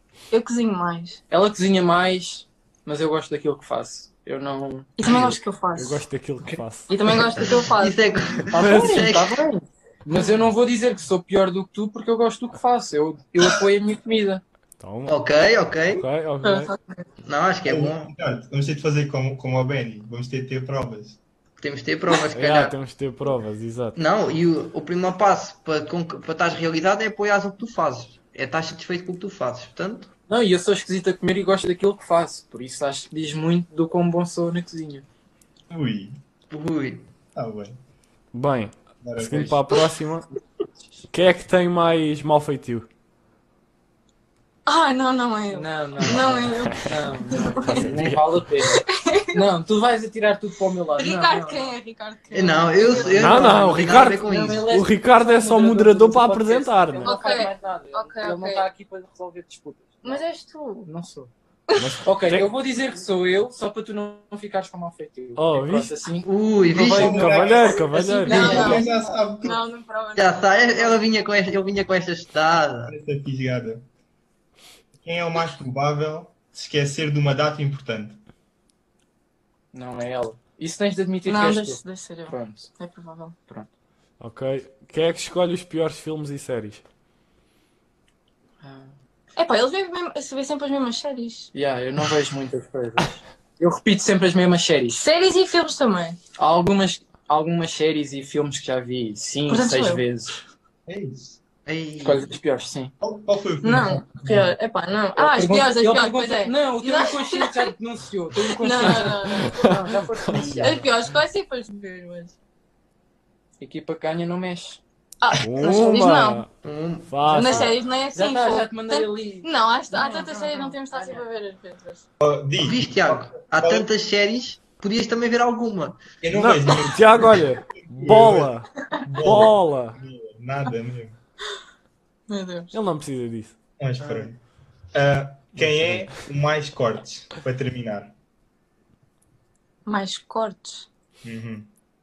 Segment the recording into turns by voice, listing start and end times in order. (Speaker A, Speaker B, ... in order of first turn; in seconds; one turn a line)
Speaker A: 0.3-1.2
Speaker B: 1.3-5.2
Speaker A: 5.0-6.0
Speaker C: 5.0-6.9
Speaker A: 6.9-8.0
Speaker D: 7.4-9.4
Speaker B: 8.5-14.4
Speaker C: 8.6-9.1
Speaker C: 14.8-15.2
Speaker D: 15.1-16.0
Speaker C: 15.9-16.7
Speaker A: 16.4-17.0
Speaker D: 17.2-18.1
Speaker E: 17.6-21.2
Speaker D: 21.6-22.8
Speaker C: 22.3-24.0
Speaker D: 23.9-30.1
Speaker B: 30.3-35.0
Speaker E: 35.7-36.2
Speaker D: 36.5-37.1
Speaker E: 37.3-37.8
Speaker C: 38.3-40.3
Speaker E: 39.0-39.6
Speaker C: 41.1-42.9
Speaker A: 44.6-47.8
Speaker B: 45.5-51.7
Speaker C: 47.7-48.4
Speaker A: 48.6-49.4
Speaker A: 51.0-53.5
Speaker D: 52.3-54.8
Speaker B: 52.8-60.2
Speaker C: 53.1-57.1
Speaker A: 57.0-58.6
Speaker A: 60.0-60.9
Speaker B: 60.8-61.3
Speaker A: 61.7-62.0
Speaker C: 61.8-62.5
Speaker B: 62.0-68.8
Speaker C: 65.3-65.9
Speaker D: 66.2-67.5
Speaker E: 66.9-69.6
Speaker C: 66.9-68.7
Speaker A: 68.2-68.9
Speaker A: 69.4-71.0
Speaker D: 70.2-72.9
Speaker E: 72.8-73.8
Speaker E: 75.0-78.2
Speaker B: 79.7-82.7
Speaker A: 81.2-83.3
Speaker C: 84.2-86.8
Speaker B: 88.6-88.9
Speaker A: 89.4-91.5
Speaker B: 91.5-95.0
Speaker A: 94.9-96.2
Speaker B: 96.4-100.3
Speaker A: 99.5-100.0
Speaker E: 100.9-101.4
Speaker D: 101.7-102.3
Speaker B: 102.0-102.9
Speaker E: 103.0-104.5
Speaker A: 103.6-107.7
Speaker B: 105.2-110.8
Speaker A: 108.5-109.7
Speaker C: 109.5-110.4
Speaker A: 110.3-112.3
Speaker D: 110.4-110.6
Speaker B: 113.6-114.8
Speaker A: 115.2-116.4
Speaker C: 115.4-116.5
Speaker D: 116.6-117.5
Speaker C: 117.1-117.7
Speaker A: 117.3-122.0
Speaker B: 117.3-121.2
Speaker E: 122.2-123.9
Speaker D: 122.6-126.1
Speaker E: 126.2-131.2
Speaker C: 126.3-130.0
Speaker A: 132.3-132.7
Speaker C: 132.7-133.5
Speaker E: 133.8-134.4
Speaker E: 134.9-138.1
Speaker C: 135.6-136.1
Speaker A: 139.8-140.9
Speaker E: 141.2-141.7